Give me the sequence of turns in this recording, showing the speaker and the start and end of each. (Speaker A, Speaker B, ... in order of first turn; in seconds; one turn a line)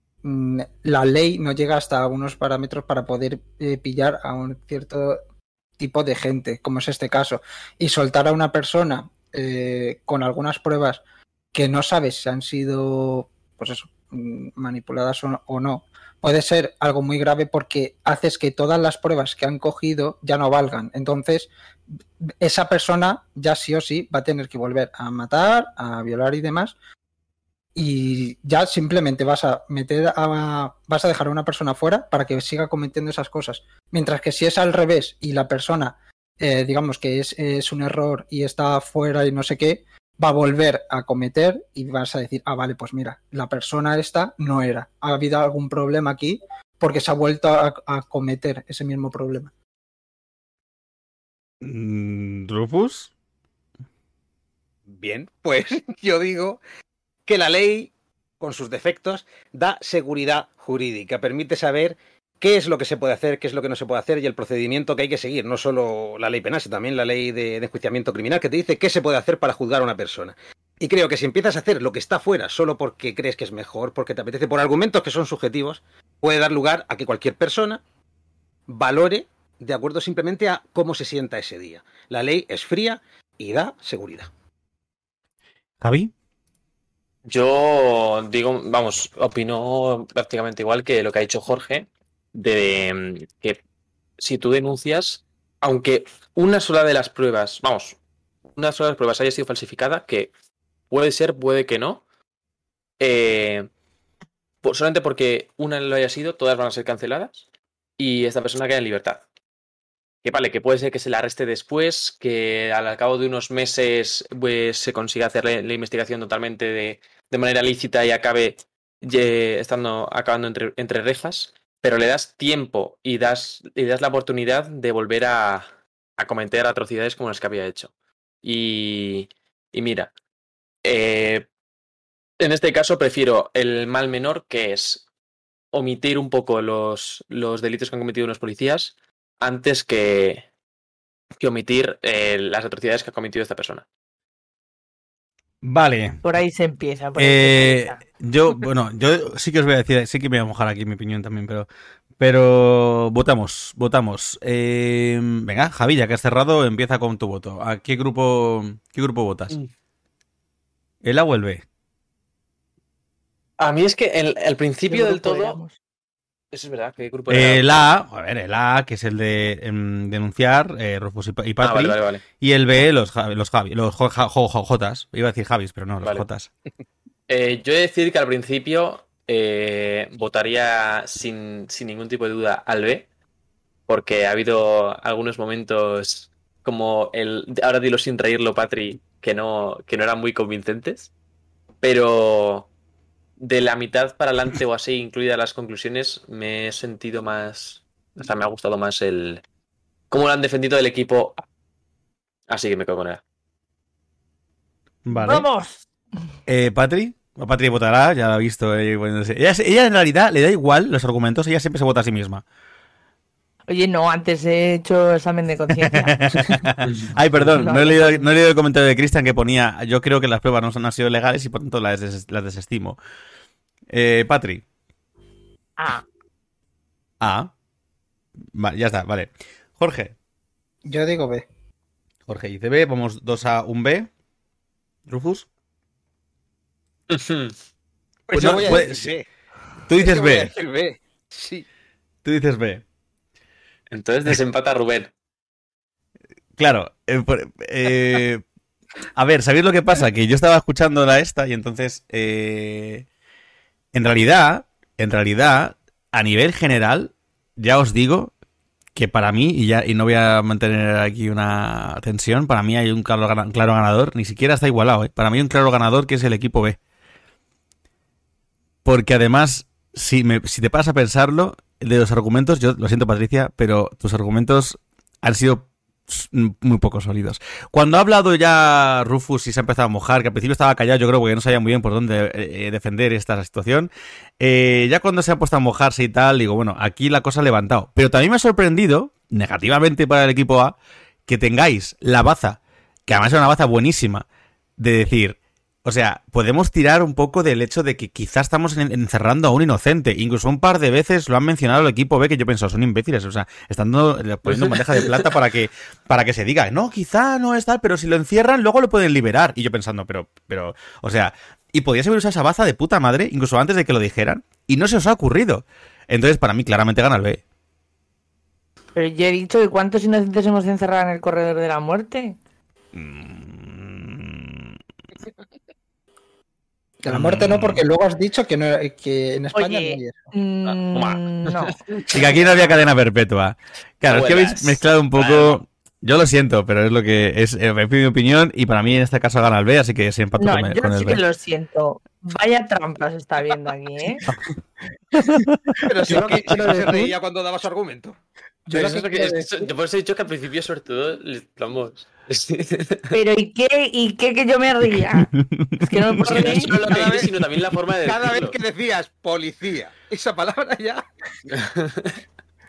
Speaker A: 0.2-5.2
Speaker A: 5.8-11.0
Speaker A: 11.5-21.5
Speaker A: 22.2-26.8
Speaker A: 27.8-49.5
Speaker B: 51.6-53.1
Speaker C: 54.9-56.6
Speaker C: 57.3-77.8
Speaker C: 78.7-84.3
Speaker B: 85.8-86.1
Speaker D: 87.3-93.6
Speaker D: 94.2-98.0
Speaker D: 98.6-100.3
Speaker D: 100.9-102.0
Speaker D: 103.0-103.7
Speaker D: 104.6-107.5
Speaker D: 108.0-109.2
Speaker D: 110.2-125.7
Speaker D: 126.2-127.9
Speaker D: 128.4-130.1
Speaker D: 130.8-131.5
Speaker D: 132.4-135.0
Speaker D: 135.7-140.5
Speaker D: 141.4-143.8
Speaker B: 145.6-146.2
Speaker E: 146.2-148.0
Speaker B: 147.2-151.7
Speaker B: 152.2-159.6
Speaker B: 161.0-161.6
Speaker D: 163.6-165.6
Speaker E: 164.9-165.8
Speaker D: 166.5-167.9
Speaker B: 167.3-176.5
Speaker D: 171.6-172.2
Speaker D: 177.3-183.1
Speaker D: 183.9-191.1
Speaker D: 191.8-192.7
Speaker D: 193.4-199.4
Speaker D: 200.1-201.4
Speaker D: 202.5-203.2
Speaker B: 205.1-205.5
Speaker E: 205.1-205.9
Speaker B: 206.5-212.4
Speaker E: 213.7-216.2
Speaker B: 215.8-223.0
Speaker D: 216.9-217.1
Speaker E: 217.5-218.3
Speaker B: 223.9-224.6
Speaker E: 225.8-226.1
Speaker B: 227.2-227.5
Speaker B: 228.5-230.1
Speaker A: 230.9-231.5
Speaker B: 232.3-234.1
Speaker B: 235.1-235.5
Speaker D: 237.1-237.6
Speaker C: 238.3-239.2
Speaker B: 238.3-239.1
Speaker B: 239.9-240.5
Speaker C: 240.0-241.7
Speaker B: 242.2-242.8
Speaker D: 243.9-245.1
Speaker B: 246.6-248.4
Speaker B: 249.2-253.1
Speaker B: 253.9-258.3
Speaker B: 258.9-266.8
Speaker B: 268.9-290.8
Speaker B: 291.3-294.3
Speaker B: 294.8-317.4
Speaker D: 304.5-305.3
Speaker E: 319.0-322.4
Speaker B: 322.9-324.8
Speaker A: 327.0-330.2
Speaker B: 327.1-327.8
Speaker E: 329.5-331.8
Speaker D: 330.9-332.1
Speaker B: 332.1-341.2
Speaker D: 334.1-335.6
Speaker E: 340.4-344.2
Speaker A: 345.2-345.4
Speaker B: 345.2-345.8
Speaker C: 345.8-348.2
Speaker A: 346.0-347.2
Speaker A: 348.7-349.7
Speaker D: 348.7-353.2
Speaker E: 353.1-356.7
Speaker B: 355.4-356.9
Speaker D: 356.2-358.6
Speaker C: 356.6-357.3
Speaker C: 358.0-361.0
Speaker D: 361.5-362.1